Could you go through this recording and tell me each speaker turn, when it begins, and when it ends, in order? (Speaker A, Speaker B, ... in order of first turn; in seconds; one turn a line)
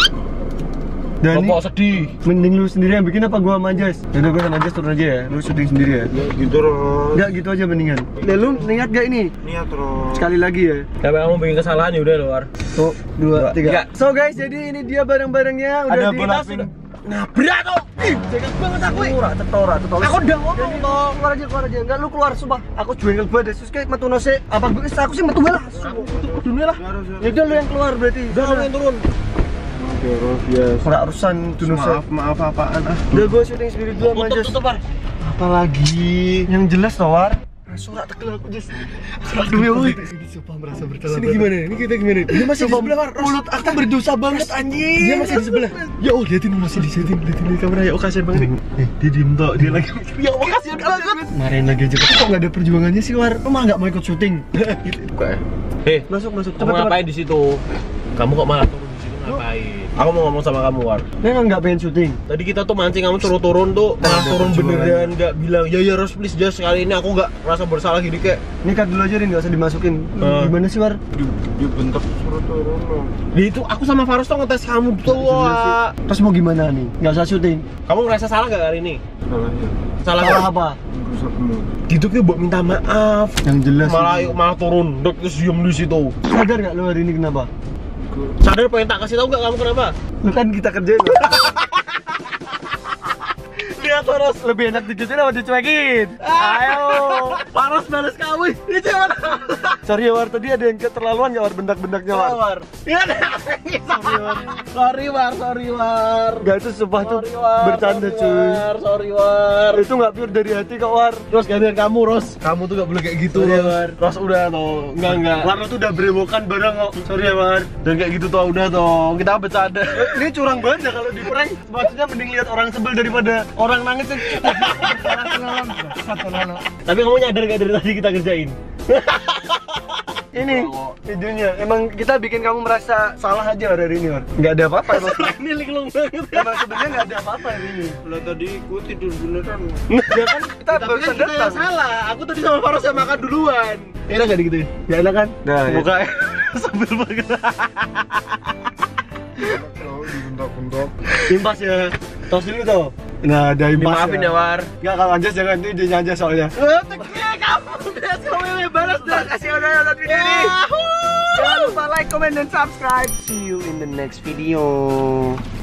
Speaker A: 1.2-1.6
Speaker B: 1.3-2.1
Speaker A: 2.2-6.1
Speaker C: 6.1-7.3
Speaker A: 7.1-9.3
Speaker C: 8.2-8.8
Speaker C: 9.4-10.2
Speaker A: 10.1-10.9
Speaker B: 11.0-12.5
Speaker A: 12.8-16.4
Speaker B: 13.3-13.9
Speaker C: 15.9-16.7
Speaker B: 16.2-19.2
Speaker A: 18.7-26.1
Speaker B: 20.0-21.2
Speaker B: 25.8-26.8
Speaker C: 25.8-27.6
Speaker A: 27.2-28.7
Speaker B: 28.3-29.0
Speaker C: 29.8-30.9
Speaker A: 30.8-32.0
Speaker B: 31.6-33.3
Speaker A: 33.1-34.6
Speaker B: 34.0-34.8
Speaker A: 35.2-41.5
Speaker B: 39.2-40.0
Speaker B: 41.1-45.8
Speaker A: 42.3-47.3
Speaker B: 46.6-51.3
Speaker A: 48.3-48.9
Speaker A: 51.3-54.5
Speaker B: 54.5-56.1
Speaker A: 56.1-57.0
Speaker B: 56.6-57.6
Speaker B: 58.1-61.1
Speaker A: 61.2-62.2
Speaker B: 62.3-68.4
Speaker A: 64.0-65.1
Speaker A: 68.6-71.0
Speaker B: 70.2-70.5
Speaker C: 71.1-73.2
Speaker B: 73.3-75.9
Speaker A: 75.0-77.7
Speaker B: 77.9-79.0
Speaker C: 79.3-79.8
Speaker B: 80.0-80.5
Speaker A: 80.2-80.8
Speaker C: 80.9-81.7
Speaker B: 81.9-86.2
Speaker A: 83.5-84.4
Speaker A: 86.3-87.5
Speaker C: 88.0-88.4
Speaker B: 88.4-90.0
Speaker A: 90.2-91.3
Speaker B: 91.2-93.0
Speaker A: 93.8-97.4
Speaker B: 96.2-99.8
Speaker A: 99.8-102.4
Speaker B: 102.1-109.8
Speaker A: 103.9-104.5
Speaker A: 106.4-108.6
Speaker A: 109.7-111.3
Speaker B: 111.3-115.6
Speaker A: 113.3-114.0
Speaker A: 115.1-117.0
Speaker B: 117.0-120.3
Speaker A: 119.9-126.7
Speaker B: 124.2-131.0
Speaker A: 130.3-135.3
Speaker B: 134.9-137.0
Speaker A: 136.3-138.0
Speaker C: 138.0-139.8
Speaker B: 139.9-144.8
Speaker A: 140.1-141.7
Speaker A: 144.9-145.9
Speaker B: 145.6-148.6
Speaker C: 149.4-150.9
Speaker A: 151.3-156.6
Speaker B: 153.8-154.7
Speaker B: 156.6-159.5
Speaker A: 158.4-160.6
Speaker B: 160.0-161.8
Speaker A: 161.3-165.4